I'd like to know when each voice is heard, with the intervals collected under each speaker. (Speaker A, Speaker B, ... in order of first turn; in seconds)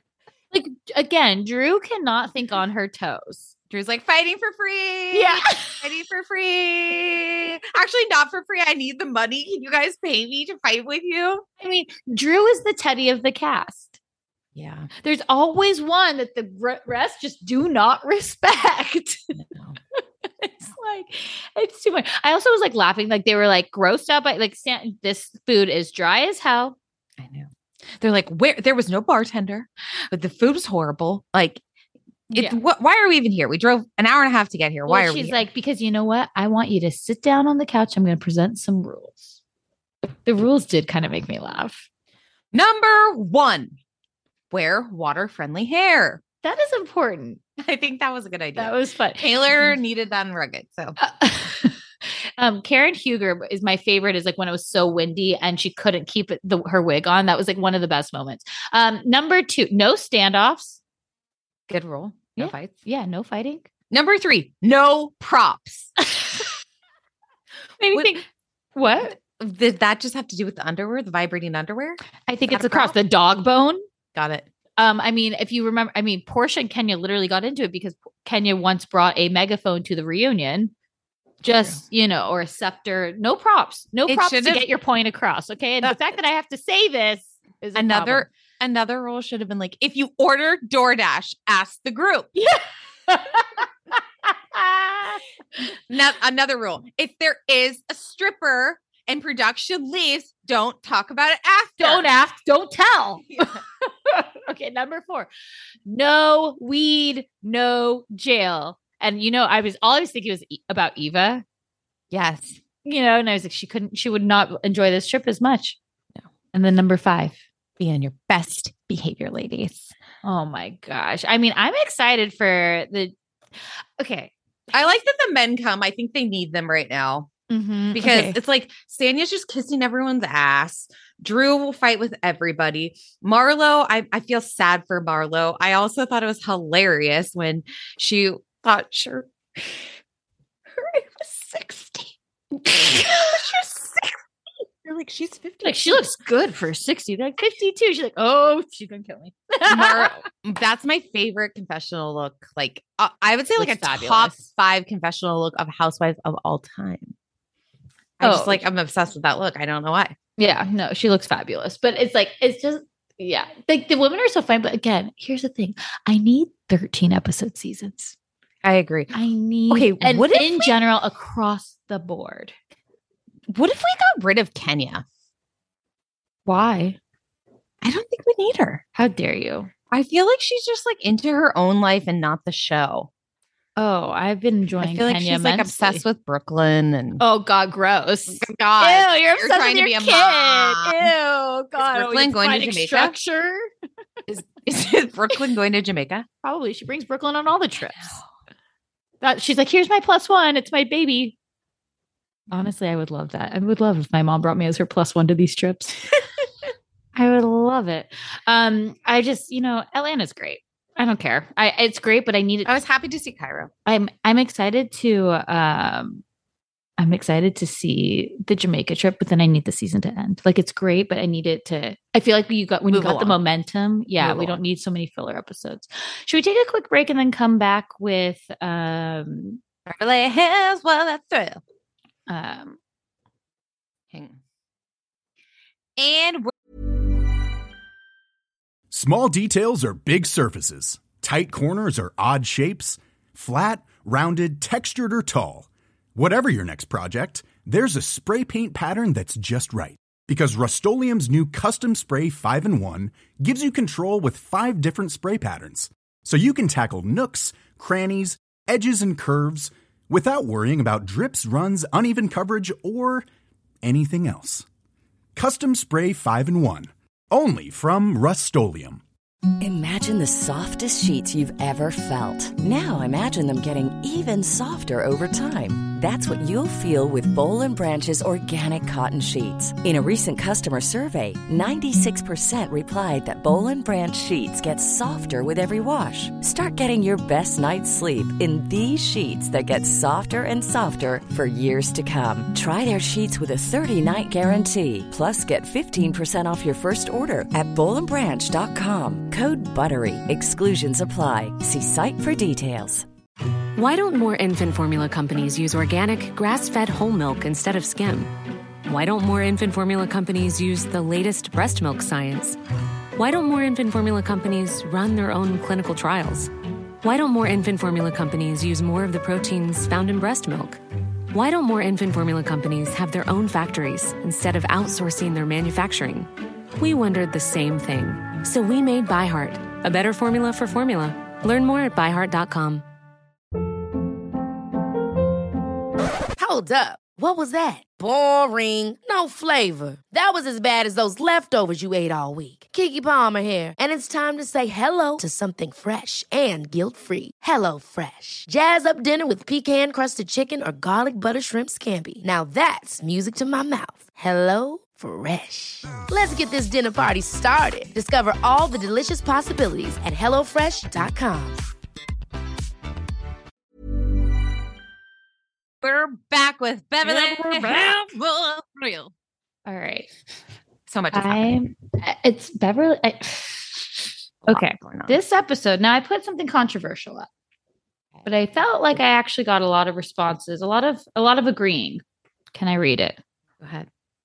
Speaker A: 0.5-3.5, 5.1-5.8, 11.6-13.9, 15.0-19.3, 20.4-26.8, 32.3-32.6, 34.9-39.4, 40.2-41.8, 46.4-47.4, 48.5-49.8, 51.0-51.8, 52.4-60.8, 62.4-63.7, 67.8-68.2, 68.7-69.2, 72.3-73.8, 74.8-80.7, 81.4-88.2, 92.3-95.2, 101.8-105.3, 105.8-111.4, 112.8-115.8, 116.5-117.4, 120.2-123.1, 124.0-124.3, 127.5-128.4, 145.6-150.2, 153.6-154.4, 158.2-158.6, 160.4-168.1, 169.1-172.5, 176.4-177.0, 178.9-179.7, 183.8-186.0, 187.2-193.7, 196.4-198.2, 199.2-201.3, 202.5-206.0, 207.1-212.7, 213.8-216.2, 217.0-229.6, 232.3-232.8, 367.0-368.1, 369.6-370.1, 371.1-377.3, 378.2-382.0, 382.5-383.2
Speaker B: 3.7-11.4, 14.5-14.9, 19.4-19.8, 27.2-31.6, 32.3-35.4, 42.5-43.8, 44.5-46.2, 47.6-51.0, 61.7-62.8, 63.9-66.0, 69.0-73.0, 74.1-74.5, 81.5-81.8, 84.0-84.7, 87.7-92.3, 95.9-102.0, 112.1-112.6, 117.8-119.9, 124.7-127.3, 127.9-139.8, 141.2-142.0, 142.6-144.1, 144.8-146.1, 149.7-157.1, 158.2-160.1, 168.6-169.1, 169.7-170.7, 173.5-175.0, 177.8-178.8, 179.9-183.1, 184.8-187.2, 188.4-191.1, 191.8-193.1, 194.3-196.3, 212.6-213.7, 222.9-223.4, 224.2-224.6, 229.8-231.6, 234.1-234.4, 236.0-236.5, 365.8-369.1, 370.9-371.7, 374.4-375.2, 383.6-383.9
Speaker C: 238.9-263.2, 263.8-264.6, 265.3-269.0
Speaker D: 269.6-303.1
Speaker E: 303.8-308.3, 308.8-312.6, 313.1-316.5, 317.0-320.8, 321.3-332.8
Speaker F: 336.4-361.6